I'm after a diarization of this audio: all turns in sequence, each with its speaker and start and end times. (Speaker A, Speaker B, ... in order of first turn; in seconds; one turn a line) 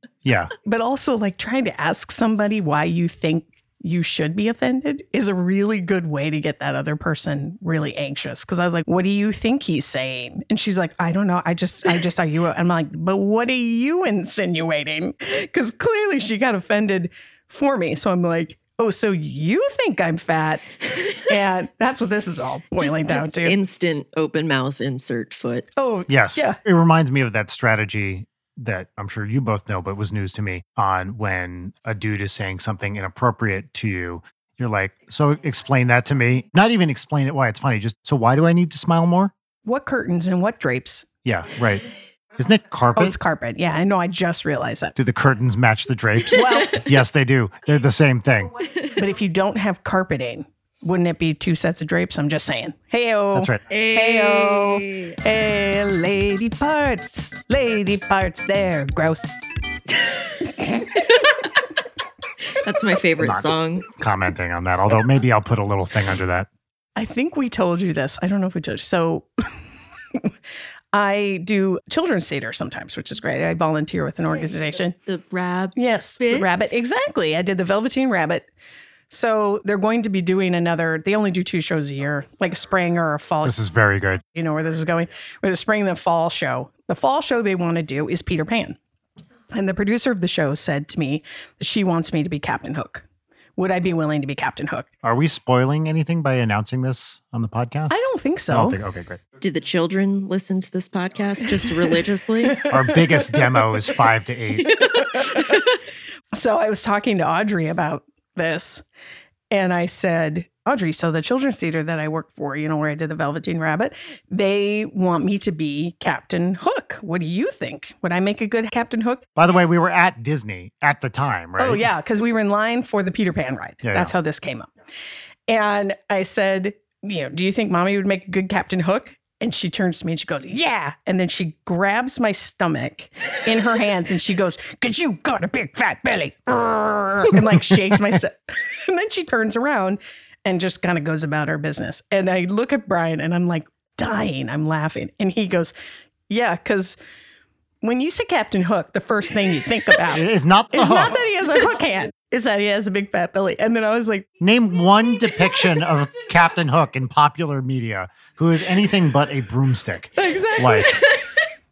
Speaker A: 0.2-0.5
Speaker B: 0.6-23.5
Speaker C: 22.8-25.7
Speaker B: 25.8-26.6
Speaker A: 26.1-39.3
Speaker B: 39.6-41.0
Speaker A: 41.2-43.2
Speaker B: 42.9-45.0
Speaker A: 45.0-48.5
Speaker B: 46.3-46.9
Speaker B: 48.9-59.3
Speaker A: 53.3-53.6
Speaker C: 53.7-55.2
Speaker B: 60.4-61.5
Speaker C: 61.0-61.5
Speaker C: 62.5-63.9
Speaker A: 63.2-66.5
Speaker B: 67.0-69.3
Speaker B: 70.9-75.0
Speaker C: 75.0-76.9
Speaker B: 75.8-78.5
Speaker B: 79.1-83.5
Speaker A: 83.4-84.2
Speaker B: 84.3-88.8
Speaker B: 89.5-93.0
Speaker B: 93.6-94.9
Speaker A: 95.0-99.2
Speaker B: 97.9-98.8
Speaker C: 99.4-102.6
Speaker B: 102.6-103.8
Speaker A: 102.7-104.8
Speaker B: 104.8-105.7
Speaker C: 104.8-105.5
Speaker B: 106.3-108.8
Speaker B: 109.5-119.2
Speaker A: 119.3-121.9
Speaker B: 121.6-124.7
Speaker A: 123.8-124.1
Speaker B: 125.5-145.7
Speaker B: 146.3-146.9
Speaker B: 147.8-154.3
Speaker A: 150.1-151.2
Speaker A: 154.4-161.0
Speaker B: 160.2-161.2